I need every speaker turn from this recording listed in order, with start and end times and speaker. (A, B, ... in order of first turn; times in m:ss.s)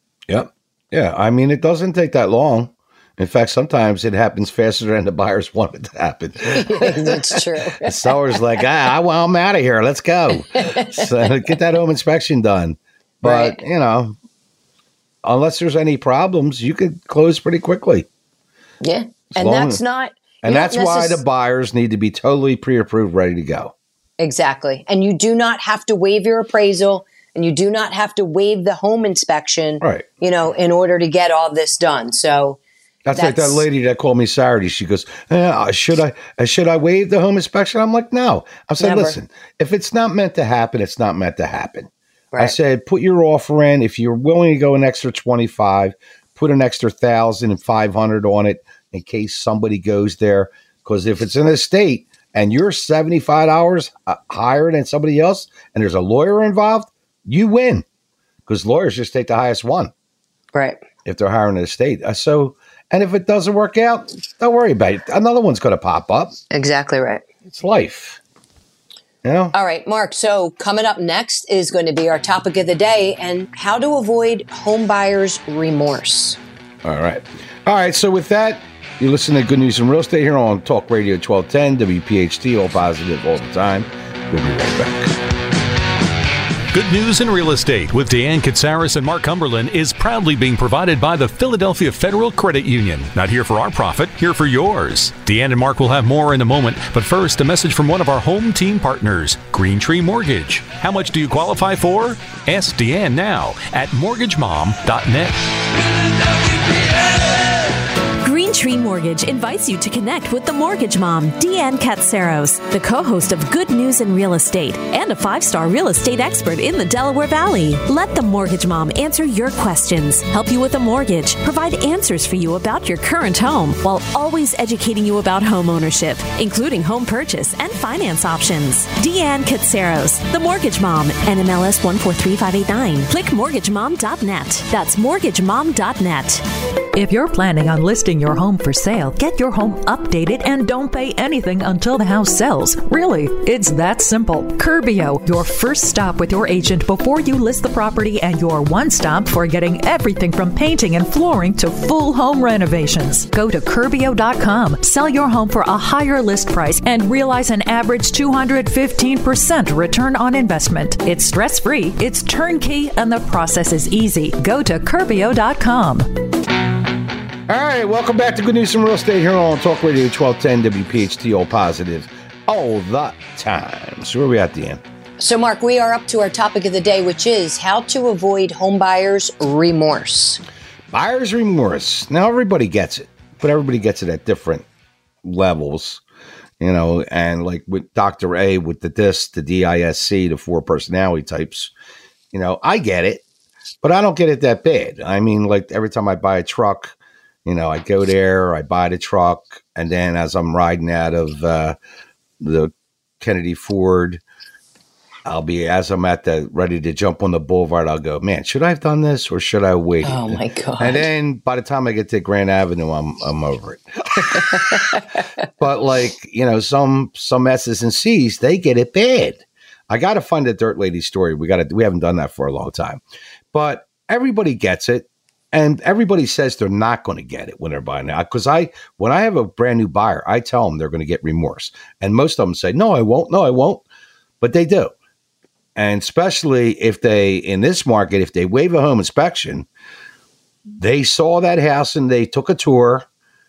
0:00.3-0:14.1 A
0:06.5-0:08.1 B
0:10.6-0:11.2 B
0:13.2-0:13.6 B
0:15.2-0:18.1 A
0:18.8-0:21.2 B
0:19.3-0:19.8 A
0:20.4-0:23.7 A
0:24.2-0:32.6 B
0:29.8-0:30.1 A
0:33.0-0:57.8 A
0:33.1-0:33.6 B
0:38.8-0:39.2 B
0:58.4-0:59.9 A
1:00.5-1:00.8 B
1:01.0-1:06.4 A
1:06.5-1:07.2 B
1:07.4-1:08.2 A
1:09.2-1:09.5 A
1:09.5-1:16.4 B
1:16.8-1:25.2 A
1:26.7-1:45.4 C
1:48.2-2:16.4 D
2:16.9-2:46.2 E
2:47.5-2:54.8 A
2:55.2-3:00.4 B
3:00.9-3:04.6 A
3:05.2-3:06.0 A
3:06.6-3:11.7 A
3:12.3-3:13.2 A
3:13.8-3:21.8 A
3:22.4-3:24.2 A
3:25.2-3:34.6 A
3:30.0-3:31.1 B
3:34.3-3:35.2 B
3:35.6-3:43.0 A
3:43.5-3:53.8 A
3:54.4-3:54.9 A
3:55.8-3:59.7 A
4:00.8-4:03.1 A